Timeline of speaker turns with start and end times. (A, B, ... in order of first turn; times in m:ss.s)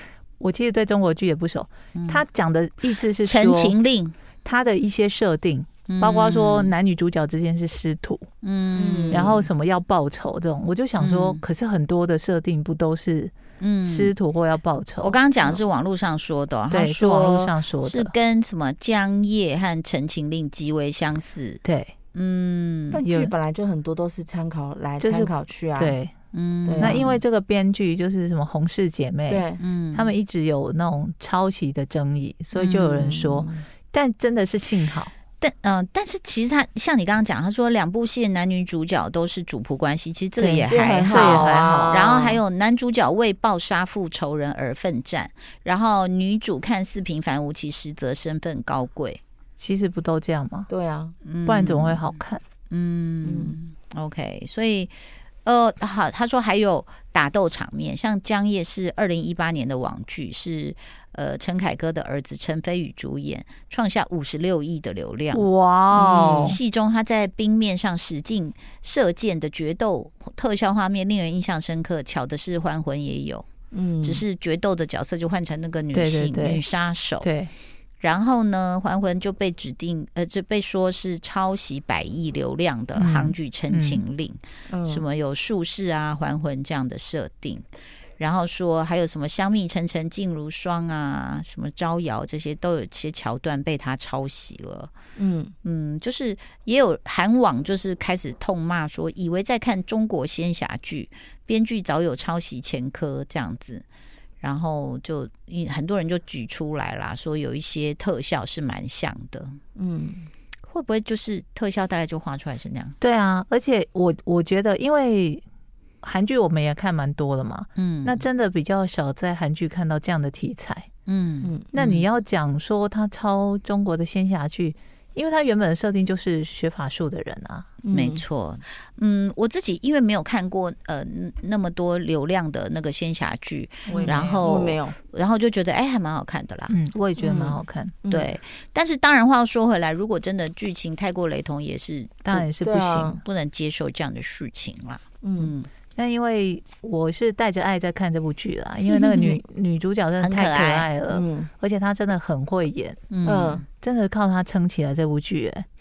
0:00.4-0:03.7 A
0:01.9-0:02.2 B
0:03.2-0:04.1 B
0:04.4-0:08.3 A
0:05.9-0:06.7 B
0:08.4-0:09.4 B
0:08.7-0:09.4 C
0:09.1-0:15.1 A
0:11.0-0:11.4 B
0:13.6-0:14.1 B
0:15.0-0:21.6 B
0:16.7-0:18.1 A
0:21.6-0:21.9 A
0:22.1-0:23.0 B
0:22.9-0:26.0 C
0:23.0-0:23.3 A
0:25.0-0:26.1 A
0:26.3-0:27.2 B
0:26.6-0:27.0 C
0:26.8-0:35.1 A
0:29.3-0:29.6 C
0:29.6-0:30.1 B
0:32.5-0:33.0 B
0:33.0-0:33.6 C
0:35.4-0:49.2 B
0:40.4-0:42.0 A
0:40.6-0:42.4 C
0:49.6-0:50.7 A
0:50.7-0:51.1 C
0:51.2-0:52.2 B
0:51.4-0:52.4 A
0:52.7-1:05.4 B
0:53.2-0:53.5 C
1:05.3-1:06.6 A
1:05.9-1:06.6 C
1:06.2-1:13.4 B
1:13.7-1:14.2 C
1:14.0-1:17.3 B
1:15.9-1:16.6 A
1:17.2-1:17.5 A
1:18.0-1:27.6 B
1:23.0-1:24.0 A
1:24.7-1:25.0 C
1:28.2-1:34.9 B
1:35.2-1:35.5 C
1:35.6-1:43.8 B
1:44.4-1:49.6 B
1:49.8-1:50.3 C
1:50.7-1:53.0 B
1:53.0-1:55.4 A
1:56.0-2:00.9 A
1:57.8-1:58.2 B
2:01.0-2:02.1 B
2:01.7-2:07.7 A
2:07.8-2:08.2 C
2:07.9-2:16.7 B
2:13.9-2:15.0 C
2:13.9-2:14.4 A
2:16.7-2:18.0 A
2:17.2-2:18.3 C
2:18.1-2:22.3 B
2:22.2-2:23.2 A
2:22.3-2:23.2 C
2:23.2-2:25.7 B
2:25.2-2:25.5 C
2:25.9-2:33.0 A
2:30.2-2:30.9 B
2:31.1-2:31.5 C
2:33.1-2:33.6 B
2:33.2-2:33.6 C
2:33.8-2:35.6 A